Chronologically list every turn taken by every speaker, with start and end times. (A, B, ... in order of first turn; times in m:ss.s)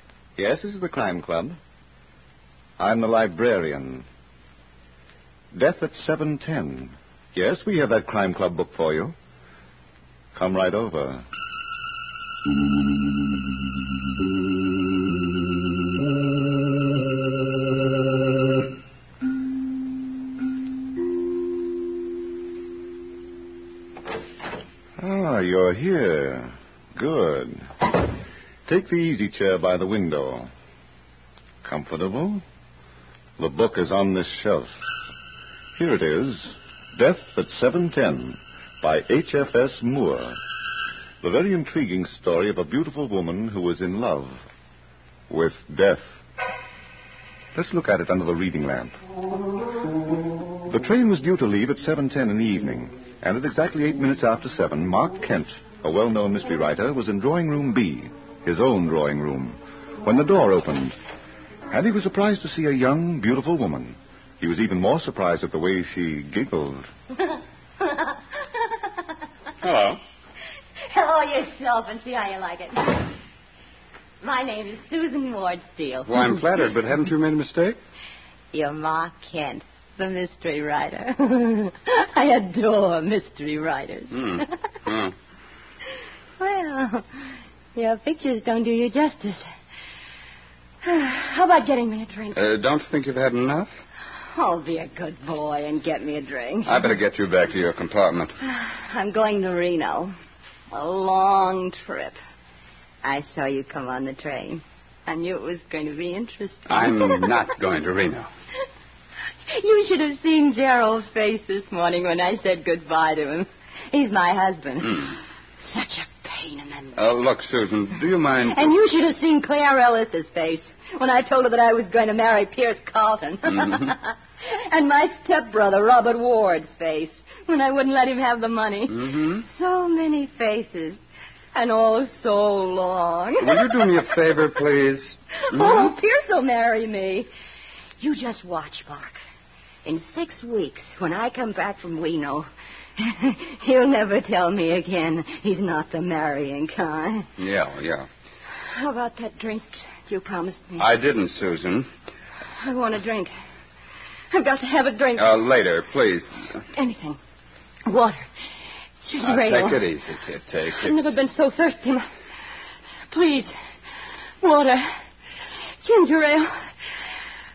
0:00.4-0:01.6 A
0:02.8-0:04.0 A
0:05.5-0:09.2 A
0:10.3-0:11.2 A
0:25.0-0:28.0 A
0:28.6-0:30.5 A
0:31.6-0:32.4 A
0:33.4-0:34.7 A
0:35.8-0:40.4 A
0:41.2-0:44.4 A
0:45.3-0:46.2 A
0:47.5-0:49.0 A
0:50.6-1:00.9 A
1:01.7-1:06.9 A
1:07.3-1:08.8 B
1:09.6-1:10.0 C
1:10.9-1:13.2 B
1:14.2-1:16.2 B
1:16.1-1:17.8 C
1:18.5-1:24.5 B
1:24.1-1:25.1 C
1:26.4-1:29.5 B
1:30.8-1:32.4 B
1:32.3-1:33.7 C
1:34.2-1:36.9 B
1:36.6-1:38.4 C
1:38.4-1:40.1 B
1:40.7-1:42.2 B
1:43.0-1:47.3 B
1:46.7-1:48.3 C
1:49.5-1:57.0 B
1:57.0-1:58.7 C
1:58.4-2:11.0 B
2:09.0-2:09.4 C
2:11.5-2:14.1 B
2:13.4-2:15.9 C
2:15.3-2:17.3 B
2:18.0-2:19.2 B
2:19.8-2:27.3 B
2:27.4-2:28.1 C
2:28.6-2:30.8 B
2:30.8-2:31.9 C
2:32.6-2:33.3 B
2:34.3-2:35.4 B
2:35.2-2:36.6 C
2:36.7-2:37.2 B
2:37.8-2:38.3 B
2:39.0-2:39.9 B
2:39.2-2:41.0 C
2:40.7-2:42.0 B
2:43.1-2:43.6 B
2:44.4-2:45.0 B
2:45.8-2:46.7 B